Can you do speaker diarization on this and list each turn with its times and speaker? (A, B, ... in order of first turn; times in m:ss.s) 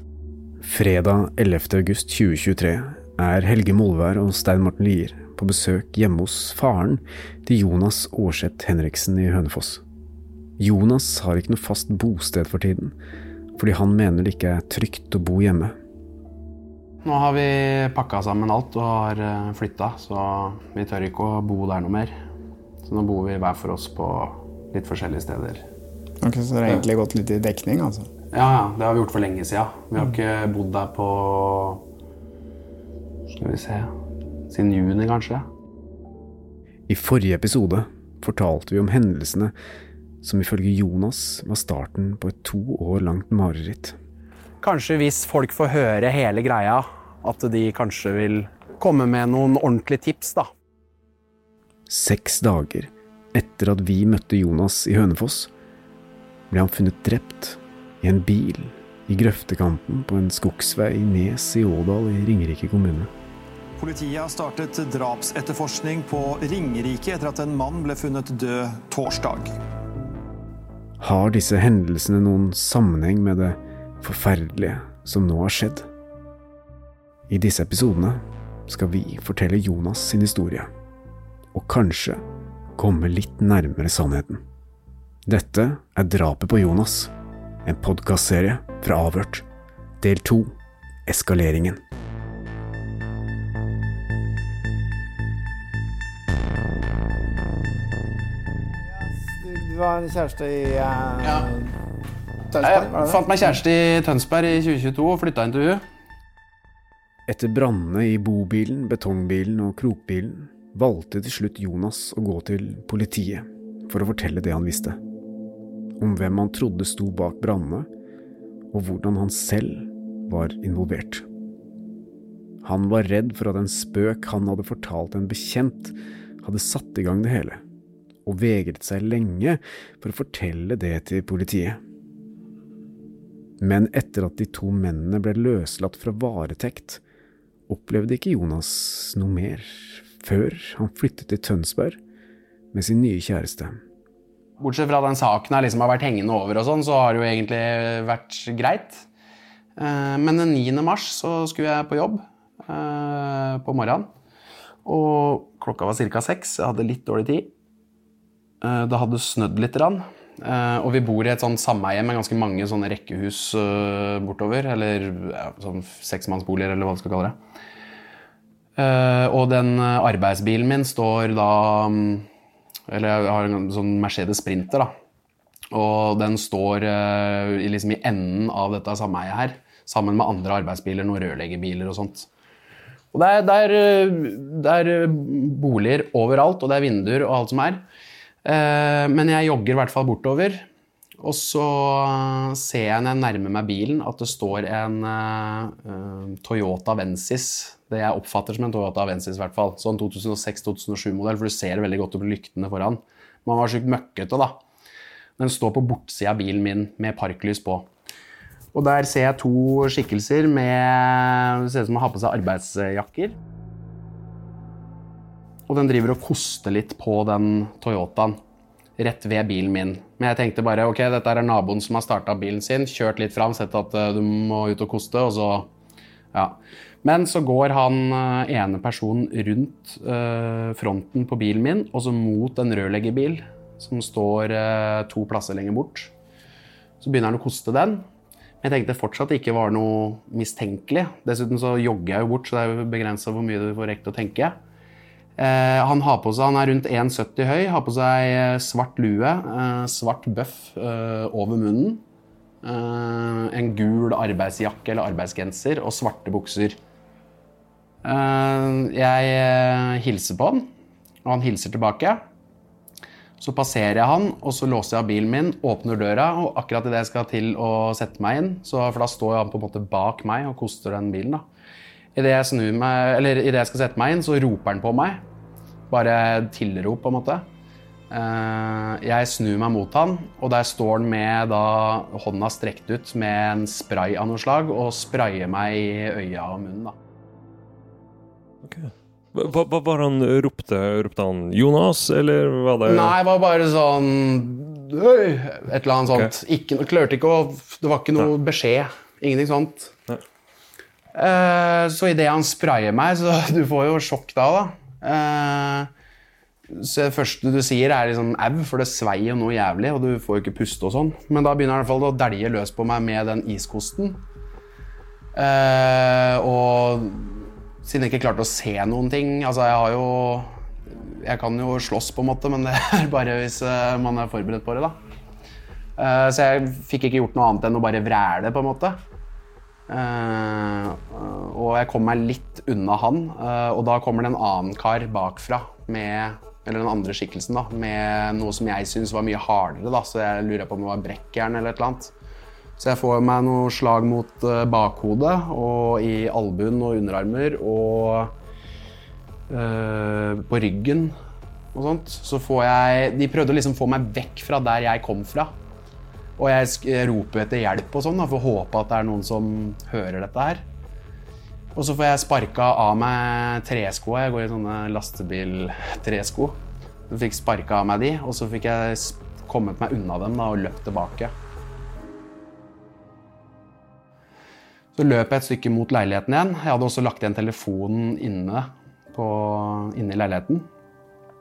0:00.6-0:09.8 A
0:10.6-0:13.0 A
0:13.6-0:15.8 A
0:17.0-0:22.1 B
0:22.9-0:25.6 B
0:26.2-0:28.1 C
0:28.3-0:31.8 B
0:33.4-0:33.9 B
0:34.5-0:35.5 B
0:36.9-0:39.5 A
0:40.2-0:44.0 A
0:44.6-0:50.5 B
0:51.9-0:55.5 A
0:56.5-1:03.1 A
1:03.8-1:09.5 D
1:11.0-1:15.9 A
1:17.3-1:20.7 A
1:21.5-1:22.2 A
1:22.8-1:24.4 A
1:25.3-1:27.1 A
1:27.6-1:29.4 A
1:30.0-1:30.5 A
1:31.1-1:31.8 A
1:39.0-1:41.7 C
1:41.2-1:41.5 B
1:42.5-1:43.2 C
1:42.6-1:45.8 B
1:47.3-1:55.0 A
1:56.0-1:57.9 A
1:58.7-2:01.2 A
2:02.6-2:07.6 A
2:08.2-2:11.8 A
2:13.6-2:17.0 A
2:17.7-2:22.0 A
2:22.7-2:23.8 A
2:24.6-2:29.0 B
2:29.8-2:34.1 B
2:34.8-2:37.5 B
2:38.6-2:47.4 B
2:48.8-2:52.3 B
2:52.9-2:54.9 B
2:55.7-3:02.3 B
3:03.1-3:07.8 B
3:08.4-3:10.7 B
3:11.2-3:24.6 B
3:25.4-3:27.9 B
3:28.7-3:33.4 B
3:35.7-3:38.4 B
3:39.0-3:45.7 B
3:46.3-3:56.1 B
3:57.0-3:58.0 B
3:58.6-4:04.6 B
4:05.4-4:12.0 B
4:12.6-4:16.8 B
4:18.0-4:20.7 B
4:21.2-4:22.2 B
4:23.4-4:31.4 B
4:32.2-4:35.2 B
4:35.9-4:37.5 B
4:38.1-4:47.0 B
4:48.6-4:53.2 E
4:52.9-5:00.0 B
5:01.1-5:05.9 B
5:06.7-5:14.2 B
5:15.4-5:25.0 B
5:26.0-5:29.0 B
5:29.9-5:42.1 B
5:42.8-5:48.3 B
5:49.5-5:51.2 B
5:51.7-5:55.5 B
5:56.4-6:00.6 B
6:01.8-6:11.3 B
6:15.0-6:20.7 B